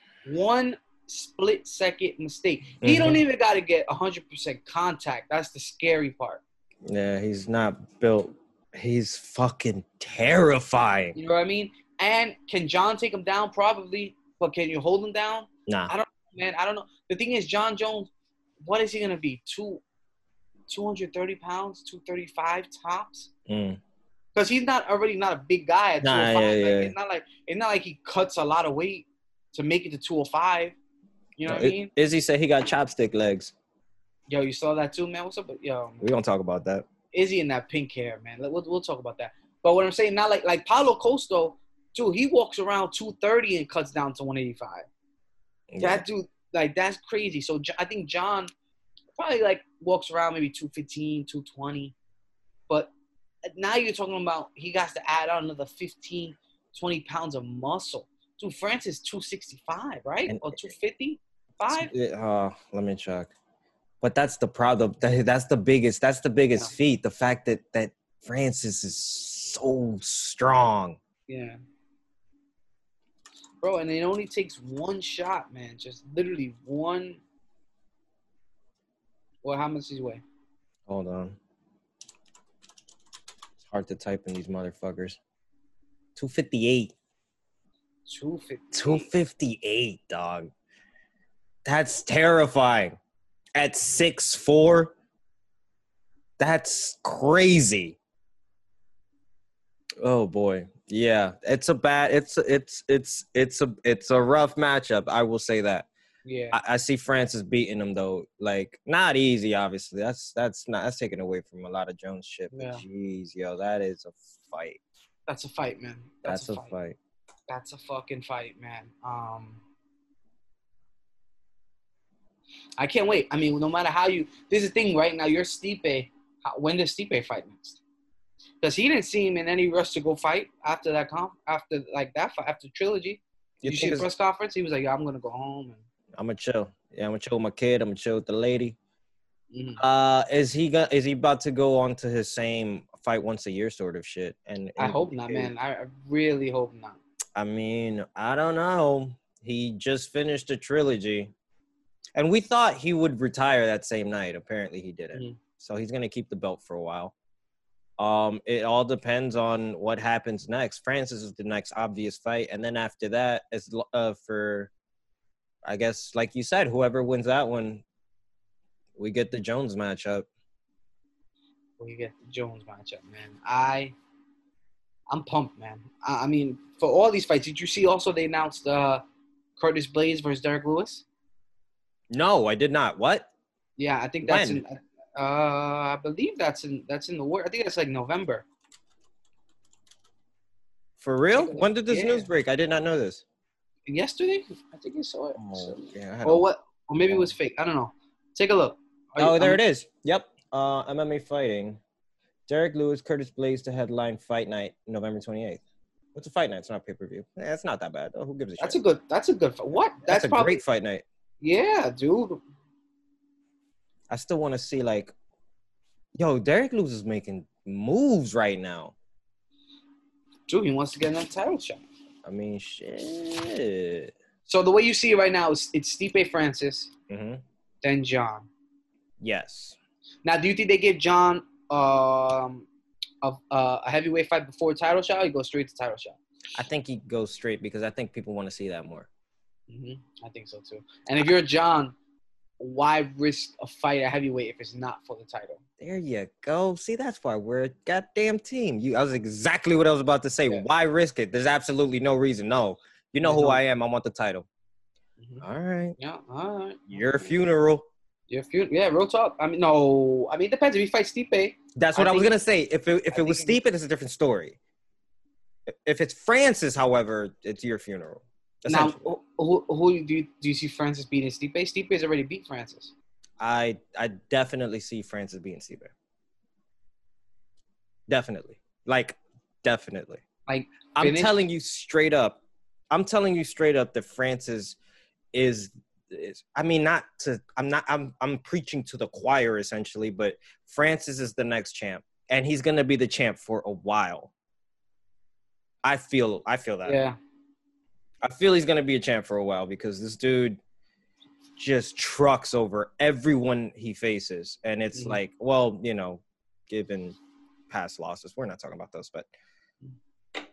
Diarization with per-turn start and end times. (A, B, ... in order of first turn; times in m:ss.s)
0:00.2-0:06.4 A
0:02.8-0:03.2 B
0:06.8-0:11.2 B
0:11.1-0:18.1 A
0:15.7-0:15.9 B
0:18.6-0:19.8 A
0:20.7-0:23.3 A
0:23.5-0:23.8 B
0:24.3-0:30.8 A
0:26.0-0:26.9 B
0:31.4-0:31.9 A
0:31.4-0:33.5 B
0:34.3-0:36.1 A
0:36.0-0:36.9 B
0:37.1-0:44.9 A
0:45.7-0:46.0 B
0:45.8-0:48.5 A
0:49.2-0:51.9 A
0:53.5-1:01.9 A
1:00.3-1:00.6 B
1:01.7-1:03.3 B
1:04.0-1:11.0 B
1:11.3-1:11.6 A
1:13.6-1:17.2 A
1:19.4-1:20.2 A
1:20.9-1:21.4 B
1:23.6-1:25.2 B
1:26.2-1:26.9 B
1:28.0-1:29.1 A
1:28.7-1:30.5 B
1:31.6-1:33.0 B
1:33.6-1:34.9 B
1:36.4-1:38.0 B
1:40.0-1:45.9 B
1:46.2-1:46.6 A
1:46.5-1:54.8 B
1:52.5-1:52.8 A
1:55.3-1:56.7 A
1:56.2-1:57.0 B
1:57.5-1:59.6 A
2:02.8-2:07.8 A
2:08.6-2:15.8 A
2:13.6-2:14.1 B
2:16.1-2:18.8 B
2:19.5-2:19.8 A
2:19.8-2:25.5 B
2:24.8-2:27.0 A
2:27.4-2:31.3 B
2:32.1-2:37.1 B
2:38.0-2:44.7 B
2:45.6-2:47.8 B
2:49.0-2:50.3 B
2:51.8-2:53.9 A
2:55.1-2:59.0 A
2:59.6-3:01.0 A
3:02.1-3:03.3 B
3:03.8-3:08.4 A
3:04.2-3:04.6 B
3:11.0-3:13.2 B
3:11.4-3:12.3 A
3:13.9-3:19.6 A
3:15.4-3:16.4 B
3:17.1-3:17.3 B
3:19.2-3:21.8 B
3:22.5-3:25.6 B
3:26.1-3:28.8 B
3:28.6-3:30.6 A
3:30.0-3:31.0 B
3:31.4-3:32.4 A
3:34.1-3:35.1 B
3:36.1-3:38.9 B
3:40.5-3:41.8 A
3:42.2-3:44.1 B
3:44.5-3:46.9 A
3:47.1-3:47.4 B
3:47.8-3:48.5 A
3:49.2-3:49.8 B
3:50.2-3:52.6 A
3:53.2-3:56.2 A
3:56.5-3:59.1 B
3:59.7-4:01.9 A
4:02.6-4:05.6 A
4:05.8-4:14.4 B
4:13.2-4:13.6 A
4:15.4-4:16.0 B
4:16.0-4:17.3 A
4:16.9-4:17.8 B
4:18.3-4:22.3 A
4:21.7-4:24.6 B
4:23.1-4:23.6 A
4:25.7-4:29.1 B
4:28.7-4:32.9 A
4:33.4-4:35.9 B
4:38.1-4:40.2 B
4:40.5-4:41.4 A
4:41.0-4:42.4 B
4:42.9-4:44.8 B
4:45.3-4:54.3 B
4:55.8-4:57.0 B
4:56.8-4:57.2 A
4:58.2-5:00.6 B
5:01.6-5:07.2 B
5:07.7-5:09.3 B